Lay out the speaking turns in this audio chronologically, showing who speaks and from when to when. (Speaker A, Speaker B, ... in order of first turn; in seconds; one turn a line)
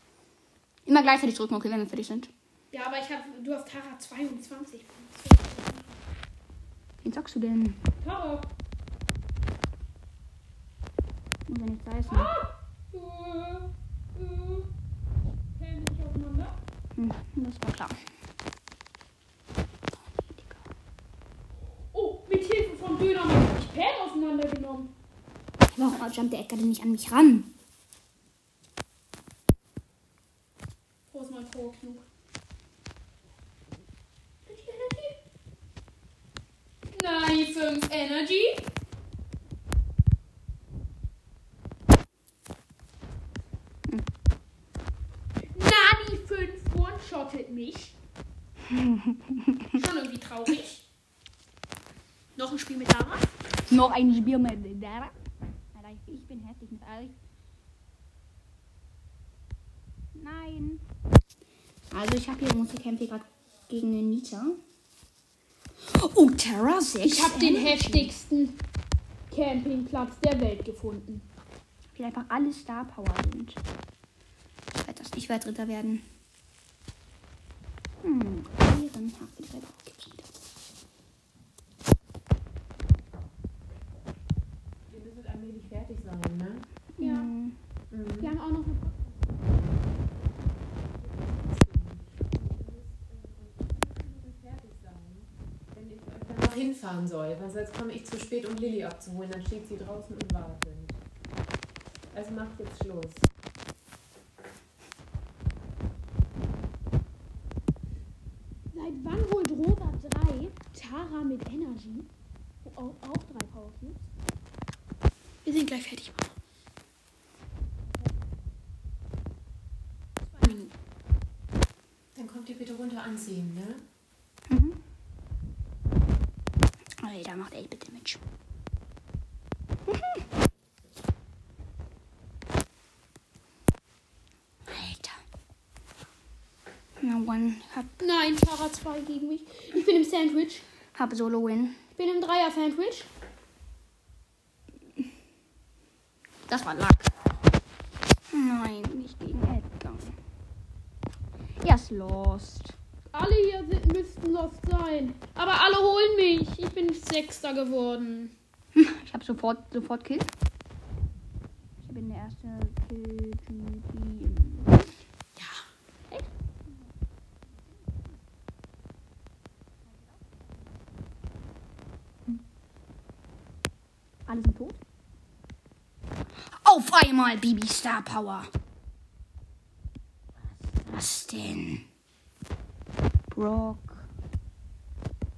Speaker A: 0.9-2.3
Speaker B: 2.7-6.0
Speaker A: 7.0-7.8
Speaker B: 8.0-8.5
Speaker A: 11.5-12.3
Speaker B: 12.1-14.7
Speaker B: 15.6-16.6
Speaker A: 17.0-18.0
Speaker A: 20.0-20.6
Speaker B: 21.9-24.9
Speaker A: 25.7-27.5
Speaker B: 31.1-32.1
Speaker B: 34.5-35.2
Speaker B: 36.9-38.7
Speaker B: 45.5-48.0
Speaker A: 48.7-49.7
Speaker B: 49.7-50.9
Speaker B: 52.4-53.3
Speaker A: 53.7-55.1
Speaker A: 55.7-57.2
Speaker A: 60.1-60.8
Speaker A: 61.9-64.6
Speaker A: 65.8-68.1
Speaker B: 67.0-68.6
Speaker B: 69.3-71.3
Speaker A: 71.9-73.6
Speaker A: 74.8-76.0
Speaker A: 78.0-80.3
Speaker C: 84.9-86.7
Speaker B: 87.0-87.3
Speaker A: 87.0-87.6
Speaker C: 87.9-88.3
Speaker B: 88.2-89.5
Speaker C: 89.8-101.0
Speaker C: 102.1-103.3
Speaker B: 108.7-112.1
Speaker B: 112.6-114.1
Speaker B: 115.5-116.3
Speaker B: 120.2-120.7
Speaker C: 122.2-123.8
Speaker A: 124.5-124.8
Speaker A: 127.0-128.2
Speaker A: 129.9-130.2
Speaker A: 134.7-135.2
Speaker A: 137.0-137.9
Speaker B: 138.0-140.7
Speaker A: 140.9-141.8
Speaker B: 142.0-143.1
Speaker A: 146.5-147.1
Speaker A: 148.3-150.2
Speaker A: 151.6-152.8
Speaker B: 153.1-158.3
Speaker A: 158.8-160.3
Speaker A: 161.8-164.9
Speaker B: 165.4-165.6
Speaker A: 166.1-166.9
Speaker A: 167.5-168.1
Speaker A: 169.8-170.6
Speaker A: 174.3-174.8
Speaker A: 176.5-178.5
Speaker A: 180.6-181.8
Speaker A: 183.3-184.1